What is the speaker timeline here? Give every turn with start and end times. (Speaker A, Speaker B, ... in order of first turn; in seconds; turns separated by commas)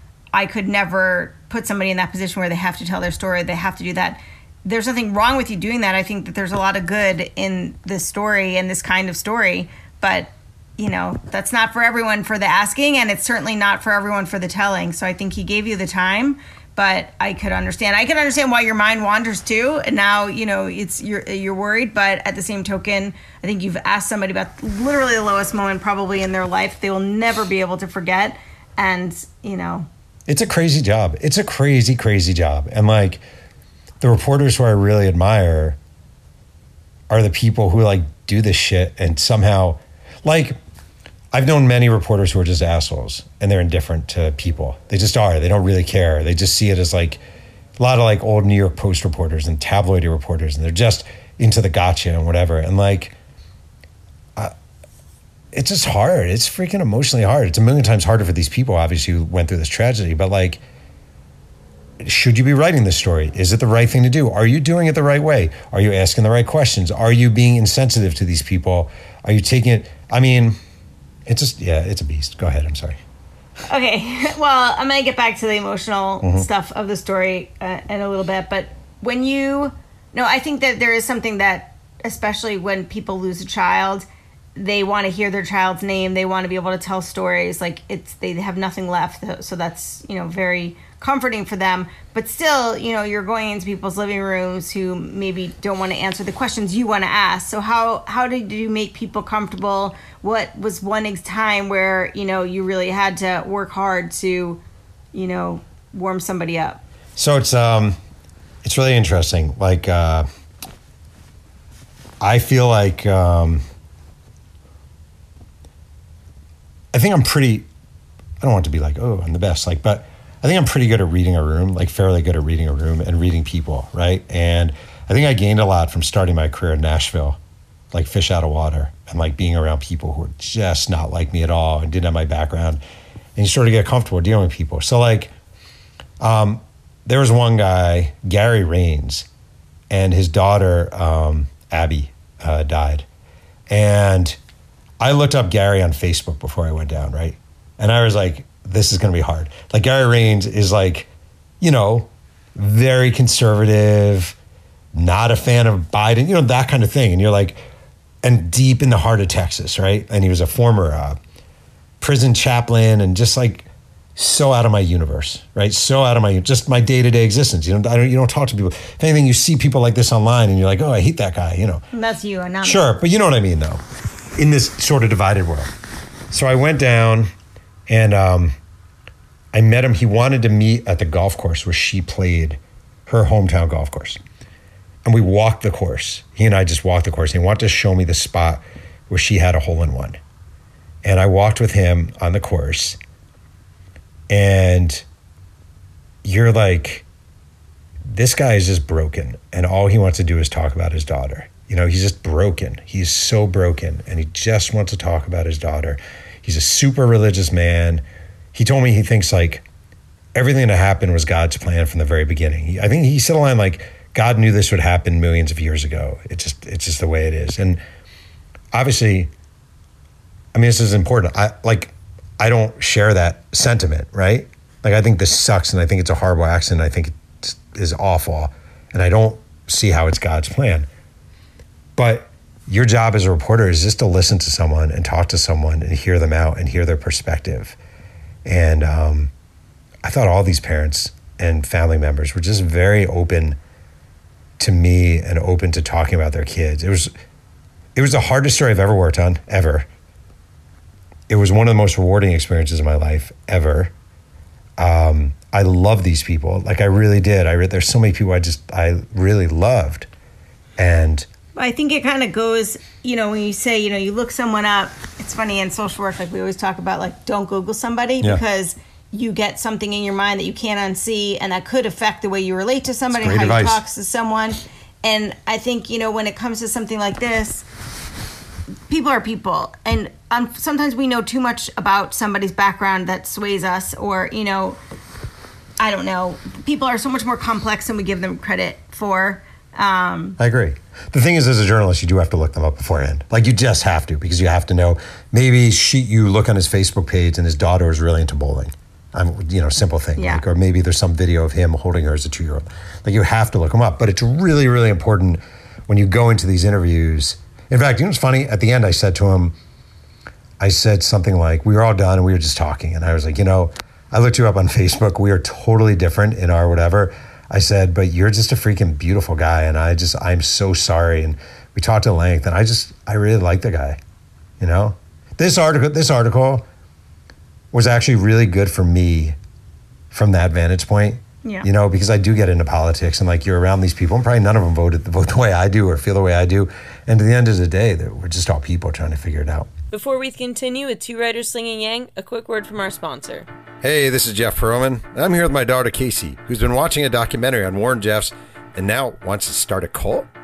Speaker A: 0.3-29.9, Speaker B: 30.3-33.2, Speaker B: 34.0-35.8, Speaker B: 37.1-40.6, Speaker B: 41.3-47.2, Speaker B: 47.8-53.1, Speaker B: 55.5-60.6, Speaker B: 62.0-70.6, Speaker B: 71.3-73.0, Speaker A: 73.7-106.8, Speaker B: 107.2-108.0, Speaker B: 108.6-110.3, Speaker B: 112.2-113.6, Speaker B: 116.9-117.7, Speaker B: 118.4-127.4, Speaker B: 127.9-132.8, Speaker B: 133.3-135.3, Speaker B: 136.2-139.3, Speaker B: 139.9-143.1, Speaker B: 143.7-144.4, Speaker B: 145.0-151.1, Speaker B: 151.6-154.3, Speaker B: 154.9-157.6, Speaker B: 158.2-161.2, Speaker B: 162.0-171.8, Speaker A: 171.9-172.8, Speaker B: 172.6-173.8, Speaker B: 174.3-175.7, Speaker B: 176.3-177.3, Speaker B: 177.9-178.6, Speaker B: 179.5-184.2, Speaker B: 185.0-190.2, Speaker B: 191.0-193.0, Speaker B: 194.3-195.0, Speaker B: 196.2-197.0, Speaker B: 198.1-209.6, Speaker B: 210.3-217.8, Speaker B: 218.7-219.3, Speaker B: 220.5-230.9, Speaker B: 232.0-237.8, Speaker B: 238.4-239.3, Speaker B: 240.0-243.6, Speaker B: 244.6-247.1, Speaker B: 247.9-249.9, Speaker B: 251.3-253.9, Speaker B: 254.8-260.1, Speaker B: 260.8-261.2, Speaker A: 261.6-277.7, Speaker B: 273.1-273.8, Speaker A: 278.9-284.8, Speaker A: 285.8-290.4, Speaker B: 290.4-309.5, Speaker A: 300.2-300.4, Speaker B: 310.6-324.0, Speaker B: 324.6-326.6, Speaker B: 327.7-329.4, Speaker B: 330.1-339.7, Speaker C: 339.9-343.5, Speaker B: 343.8-350.3